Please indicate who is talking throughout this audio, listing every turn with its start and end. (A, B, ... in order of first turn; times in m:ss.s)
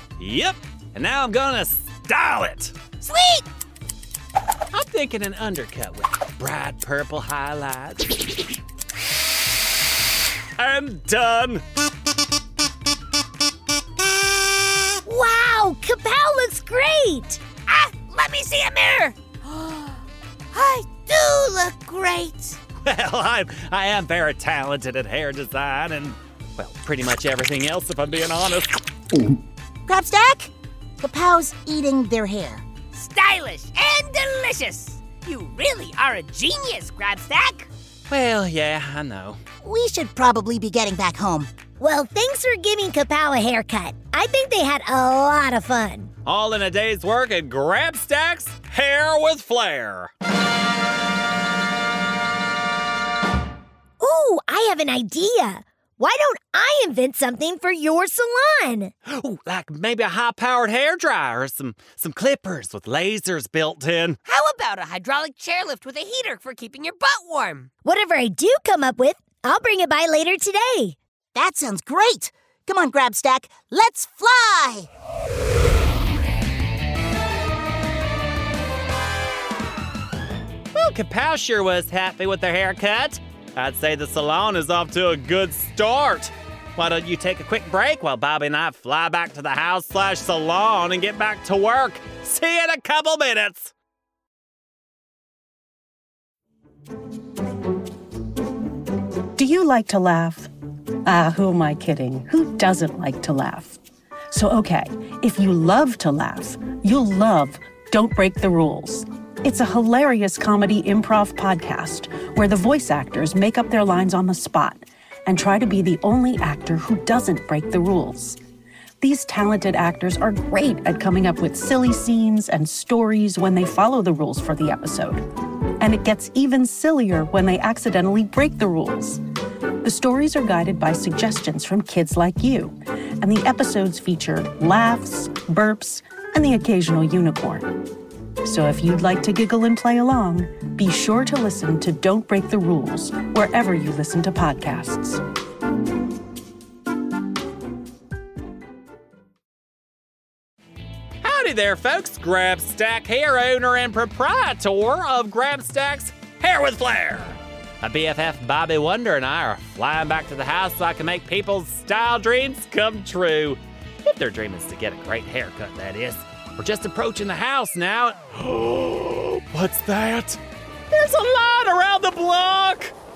0:00.2-0:02.8 A
0:03.0-0:03.4 B
0:04.7-0:08.1 A
0:10.6-0:11.6 A
0:15.0-0:17.4 C
0:17.7-0:19.1 B
0:20.6-0:22.6 D
0:22.8-0:28.8 A
0:29.9-0:32.6 D
0:32.9-0:37.7 B
0:38.1-0:39.4 A
0:39.6-0:41.5 D
0:41.8-0:46.1 C
0:46.2-0:50.1 A
0:54.0-0:58.9 C
0:59.1-1:04.2 A
1:04.3-1:07.7 B
1:07.8-1:11.0 C
1:11.3-1:14.9 D
1:20.7-1:33.7 A
1:39.4-1:40.5 E
1:41.0-1:43.8 E
1:44.3-1:58.4 E
1:59.0-2:05.2 E
2:05.8-2:09.2 E
2:09.8-2:17.7 E
2:18.4-2:25.2 E
2:31.2-2:50.4 A
2:50.9-2:52.9 A